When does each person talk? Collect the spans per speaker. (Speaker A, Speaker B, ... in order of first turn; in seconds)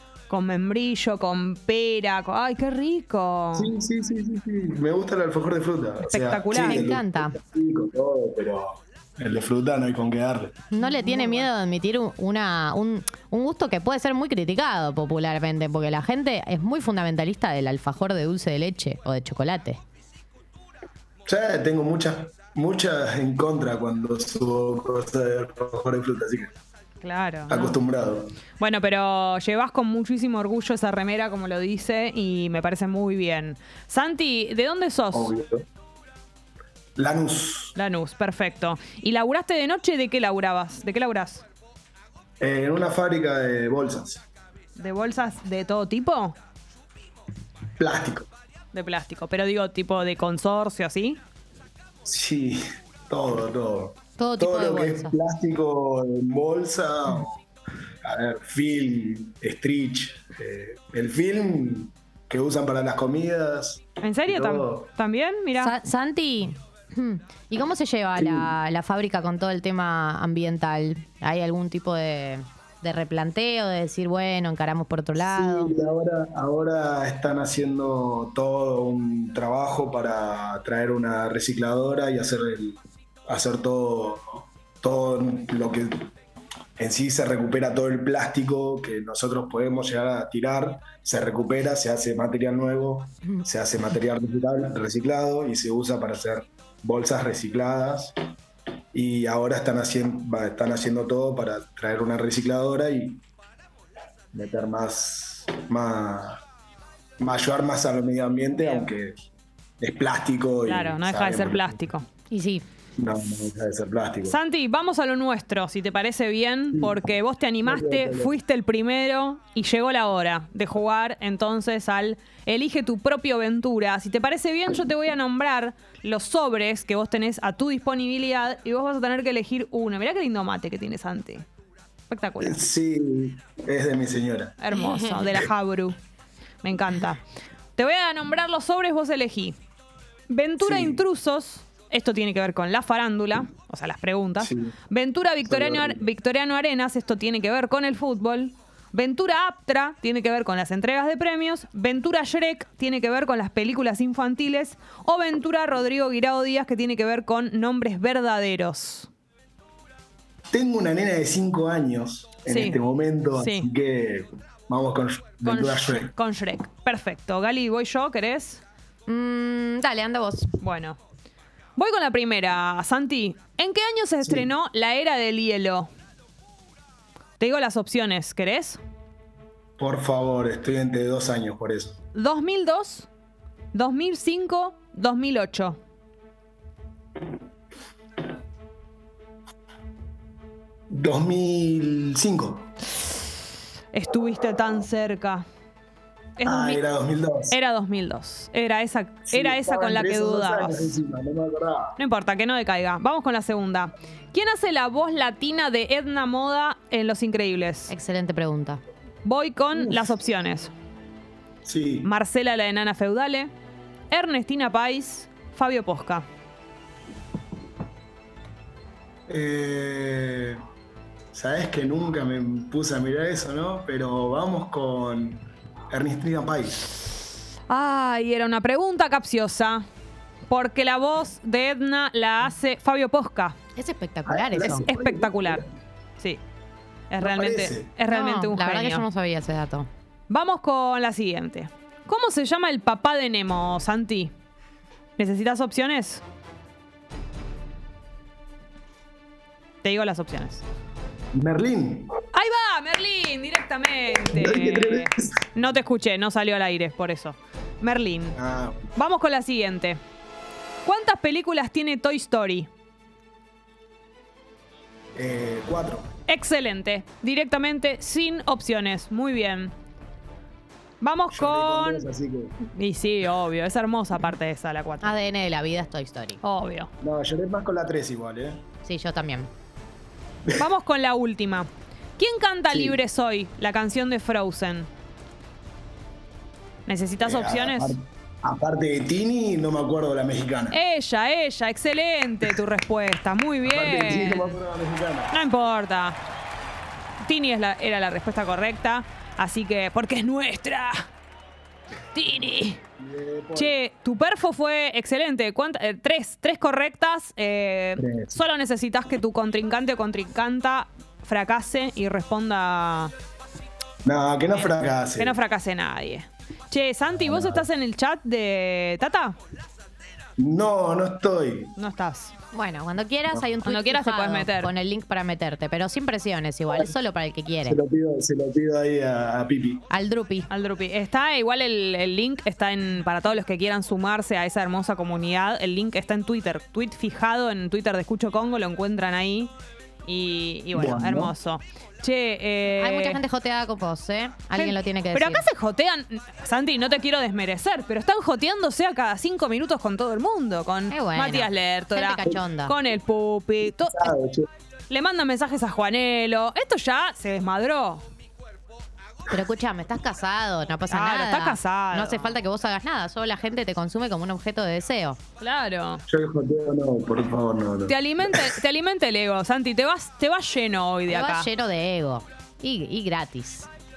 Speaker A: 0.3-3.7, 6.0-6.8, 10.8-11.4, 27.0-27.8, 28.6-35.3, 37.8-41.5, 44.8-46.4, 48.7-51.2, 64.0-65.7, 108.6-108.9, 110.7-112.0, 114.2-131.4, 132.1-132.6, 134.6-135.9, 136.6-137.2, 137.8-139.6, 140.3-159.1, 162.5-162.8, 163.3-163.7, 165.4-168.6, 170.6-171.0, 171.8-175.9, 177.4-178.8, 182.1-183.1, 183.7-185.8, 193.9-195.4, 196.4-196.8, 197.5-200.9, 202.0-207.9, 209.2-210.7, 212.0-213.5, 214.1-216.2, 227.7-229.8, 230.5-233.6, 234.7-235.6, 237.1-239.0, 240.3-244.3, 245.2-246.2, 249.8-250.6, 252.3-258.4, 258.9-260.0, 260.8-262.7, 266.3-269.7, 271.0-272.1, 272.7-275.1, 276.4-276.9, 280.5-284.9, 286.9-287.9, 290.7-294.6, 295.3-296.2, 297.2-301.0, 302.1-302.8, 303.6-313.1, 314.5-319.4, 321.8-322.3, 323.6-324.7, 330.5-339.5, 340.0-343.2, 344.5-354.1, 354.9-358.0, 360.9-362.4, 365.4-366.0, 367.9-371.5
Speaker B: 3.5-10.6, 21.2-26.5, 27.5-28.4, 35.1-35.6, 37.0-37.7, 42.4-44.2, 47.8-48.3, 52.0-57.4, 58.0-64.9, 68.2-68.5, 75.2-86.1, 86.8-98.1, 98.9-103.2, 104.3-106.4, 107.2-109.2, 109.8-111.8, 113.0-114.4, 116.7-117.0, 117.6-118.3, 132.4-134.6, 140.6-141.0, 144.4-144.7, 145.4-146.1, 160.5-166.1, 174.2-174.5, 179.8-182.0, 190.9-192.7, 196.4-197.6, 199.3-201.9, 209.7-210.1, 211.6-212.1, 219.3-220.6, 221.3-226.8, 234.3-235.6, 237.2-237.9, 251.3-252.1, 254.2-255.5, 258.4-258.9, 265.1-266.1, 271.3-272.5, 277.0-278.6, 282.7-283.0, 287.2-290.8, 293.6-295.3, 303.0-303.8, 308.0-308.3, 314.0-315.4, 317.2-317.6, 320.4-321.7, 327.6-329.8, 340.7-341.3, 353.8-354.5, 366.1-368.5
Speaker C: 6.5-7.4, 10.7-19.8, 54.2-55.1, 65.6-75.7, 112.3-112.7, 134.8-135.1, 169.1-170.5, 207.9-208.8, 233.8-234.8, 238.1-239.9, 275.0-276.4, 278.8-279.5, 322.5-327.8, 329.9-330.5, 342.7-345.5, 350.9-352.7, 359.3-365.2, 371.1-373.7